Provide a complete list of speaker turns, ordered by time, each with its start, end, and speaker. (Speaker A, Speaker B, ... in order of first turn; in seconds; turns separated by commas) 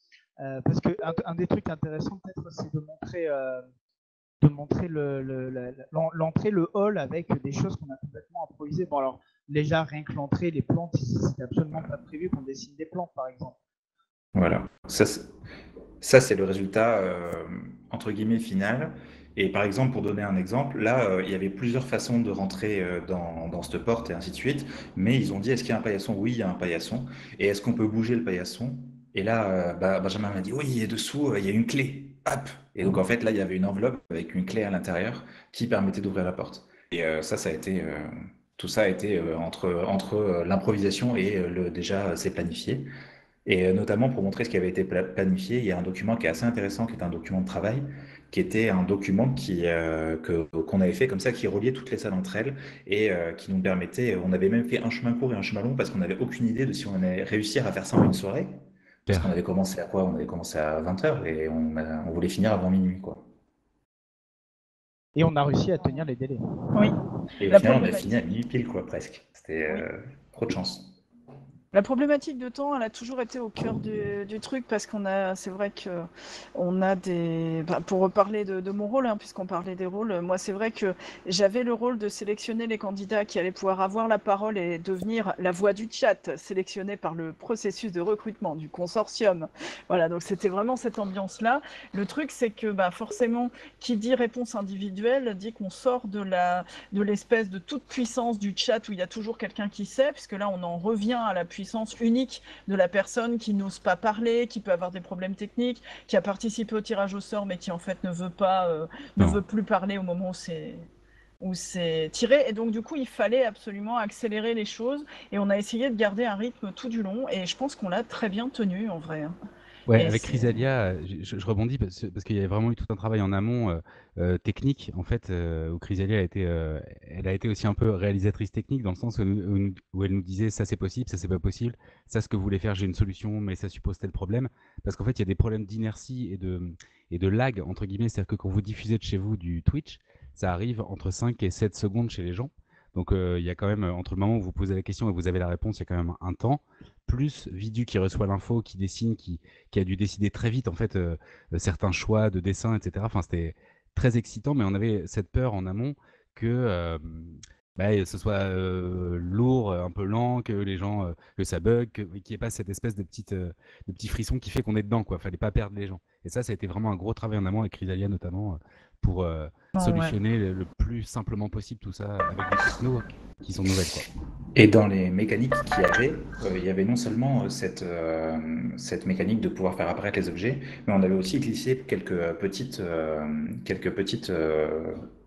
Speaker A: 0.4-3.6, Speaker A: 4.4-13.6, Speaker B: 14.3-15.3, Speaker B: 16.0-42.9, Speaker B: 43.5-63.2, Speaker A: 65.2-66.4, Speaker B: 67.4-70.9, Speaker C: 67.5-68.1, Speaker C: 71.7-110.8, Speaker C: 111.4-119.3, Speaker D: 119.9-174.1, Speaker C: 119.9-120.5, Speaker C: 169.7-170.2, Speaker B: 174.5-185.0